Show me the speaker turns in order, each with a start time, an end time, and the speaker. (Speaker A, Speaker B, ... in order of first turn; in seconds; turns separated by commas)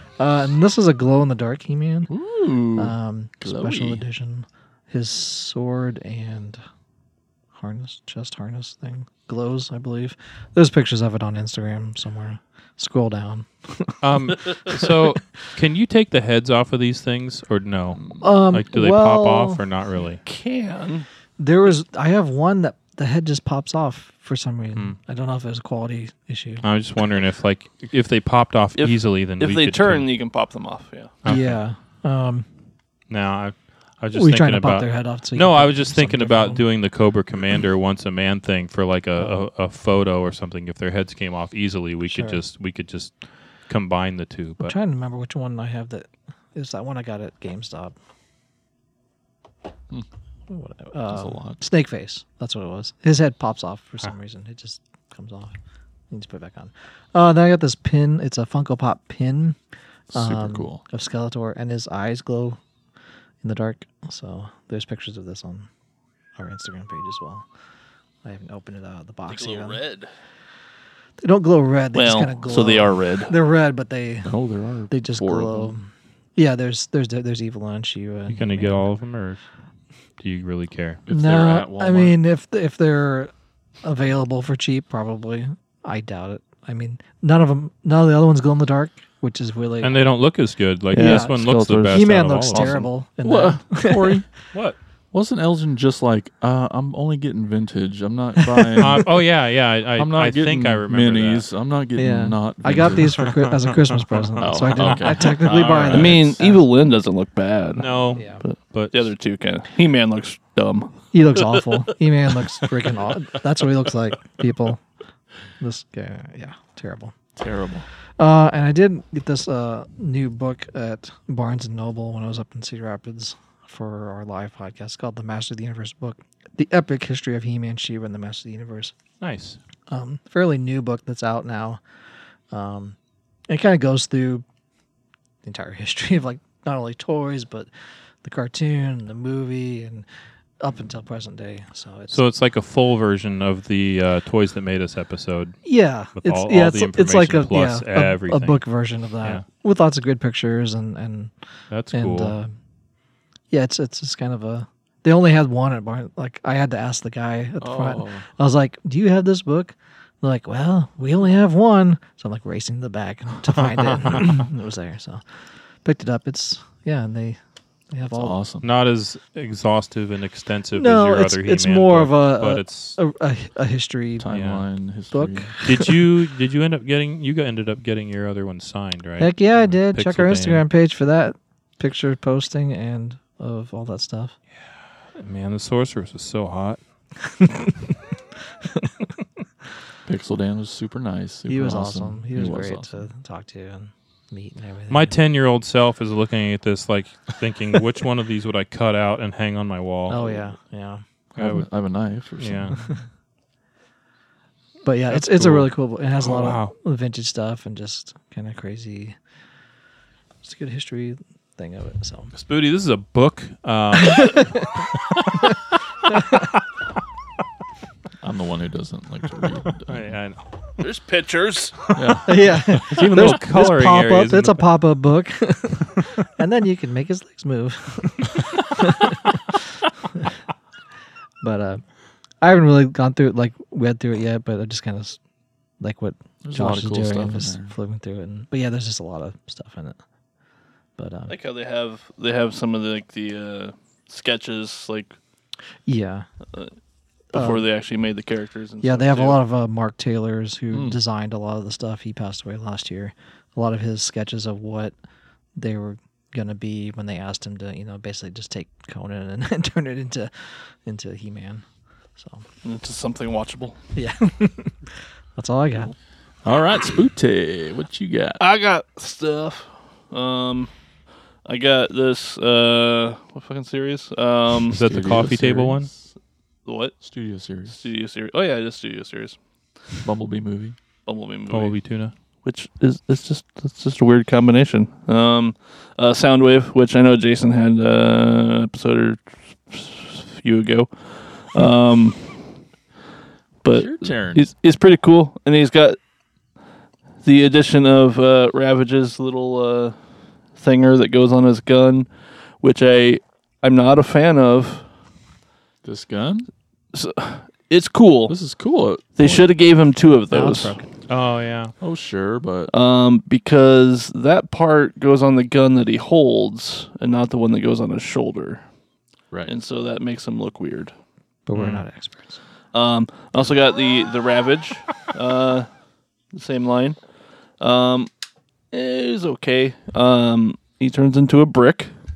Speaker A: 0.2-2.1, Speaker B: 2.1-4.0, Speaker A: 2.8-6.6, Speaker A: 7.5-15.1, Speaker C: 14.0-20.2, Speaker A: 18.2-19.6, Speaker D: 20.2-21.1, Speaker A: 21.4-26.6, Speaker C: 26.6-30.1, Speaker D: 28.8-31.1, Speaker C: 31.2-31.6, Speaker A: 31.2-32.5, Speaker C: 33.1-43.1, Speaker A: 34.1-36.6, Speaker A: 42.1-42.4, Speaker C: 43.7-44.7, Speaker A: 44.6-48.0, Speaker A: 50.5-55.5, Speaker B: 51.1-51.6, Speaker A: 56.1-59.6, Speaker B: 60.1-60.8, Speaker A: 60.1-62.6, Speaker A: 63.4-65.7, Speaker A: 66.4-67.5, Speaker A: 68.2-69.8, Speaker D: 69.3-70.1, Speaker A: 71.2-74.3, Speaker D: 71.9-73.3, Speaker B: 74.2-75.7, Speaker A: 74.9-78.8, Speaker C: 78.3-79.4, Speaker C: 80.2-81.0, Speaker B: 81.1-82.2, Speaker A: 81.1-83.3, Speaker A: 83.8-90.0, Speaker C: 89.8-92.8, Speaker D: 90.9-92.0, Speaker A: 91.0-91.4, Speaker A: 91.9-94.2, Speaker B: 92.5-94.3, Speaker C: 94.5-94.8, Speaker B: 95.1-99.1, Speaker A: 98.4-98.8, Speaker C: 98.8-101.5, Speaker B: 100.0-103.3, Speaker A: 102.0-106.6, Speaker C: 103.2-103.5, Speaker C: 104.1-106.0, Speaker B: 104.4-106.4, Speaker D: 105.9-111.8, Speaker C: 107.8-109.1, Speaker A: 108.2-108.4, Speaker A: 111.1-114.8, Speaker A: 115.6-117.2, Speaker B: 117.4-117.9, Speaker A: 118.2-128.9, Speaker C: 129.2-129.6, Speaker A: 129.9-131.8, Speaker A: 132.5-133.0, Speaker A: 133.5-134.4, Speaker A: 135.4-137.7, Speaker A: 138.2-140.1, Speaker A: 140.6-142.2, Speaker C: 142.1-145.6, Speaker A: 145.7-151.3, Speaker C: 146.2-148.6, Speaker C: 151.7-152.3, Speaker A: 151.9-152.6, Speaker A: 153.5-165.2, Speaker B: 157.6-158.3, Speaker C: 163.8-164.3, Speaker A: 165.8-168.4, Speaker B: 168.1-168.7, Speaker C: 168.6-173.0, Speaker A: 170.7-174.3, Speaker B: 174.2-175.5, Speaker C: 174.3-174.6, Speaker A: 175.1-175.9, Speaker C: 175.7-180.6, Speaker A: 179.2-184.4, Speaker C: 185.2-186.8, Speaker A: 187.4-187.7, Speaker B: 190.1-193.1, Speaker A: 191.5-195.2, Speaker C: 194.9-200.3, Speaker A: 200.1-201.0, Speaker C: 201.4-201.7, Speaker B: 201.4-202.8, Speaker C: 202.4-202.8, Speaker A: 202.7-203.0, Speaker A: 204.8-209.2, Speaker B: 205.1-205.7, Speaker C: 206.2-206.7, Speaker A: 210.4-212.3, Speaker C: 212.3-214.7, Speaker A: 214.0-214.8, Speaker A: 216.1-216.5, Speaker B: 218.2-220.1, Speaker C: 219.8-220.4, Speaker D: 220.8-221.9, Speaker C: 221.9-222.2, Speaker B: 221.9-223.2, Speaker A: 222.3-230.3, Speaker C: 222.8-224.6, Speaker A: 231.4-231.8, Speaker A: 232.4-235.2, Speaker A: 235.8-240.0, Speaker B: 236.4-237.8, Speaker A: 241.0-241.3, Speaker D: 241.3-245.2, Speaker A: 245.9-246.3, Speaker D: 247.3-249.4, Speaker A: 247.3-247.7, Speaker A: 248.8-254.9, Speaker B: 250.7-251.0, Speaker A: 255.6-261.6, Speaker A: 262.2-262.4, Speaker D: 262.6-263.8, Speaker A: 263.9-265.9, Speaker B: 266.4-268.4, Speaker D: 268.4-270.7, Speaker D: 271.4-274.8, Speaker C: 274.7-275.9, Speaker B: 274.7-276.0, Speaker D: 276.6-277.0, Speaker B: 277.0-277.8, Speaker D: 277.7-279.4, Speaker B: 280.0-280.8, Speaker D: 281.1-281.8, Speaker C: 281.5-282.1, Speaker D: 282.4-292.4, Speaker D: 293.6-296.0, Speaker B: 293.7-294.5, Speaker D: 297.2-300.0, Speaker D: 300.5-304.9, Speaker B: 305.8-306.5, Speaker D: 306.9-308.4, Speaker B: 308.3-309.5, Speaker D: 309.2-310.8, Speaker A: 310.3-310.9, Speaker C: 311.1-311.7, Speaker B: 311.8-312.7, Speaker D: 312.7-318.6, Speaker D: 319.5-320.9, Speaker A: 321.5-322.4, Speaker C: 321.5-321.8, Speaker D: 322.7-325.7, Speaker D: 326.3-327.0, Speaker D: 327.6-328.1, Speaker D: 328.7-331.9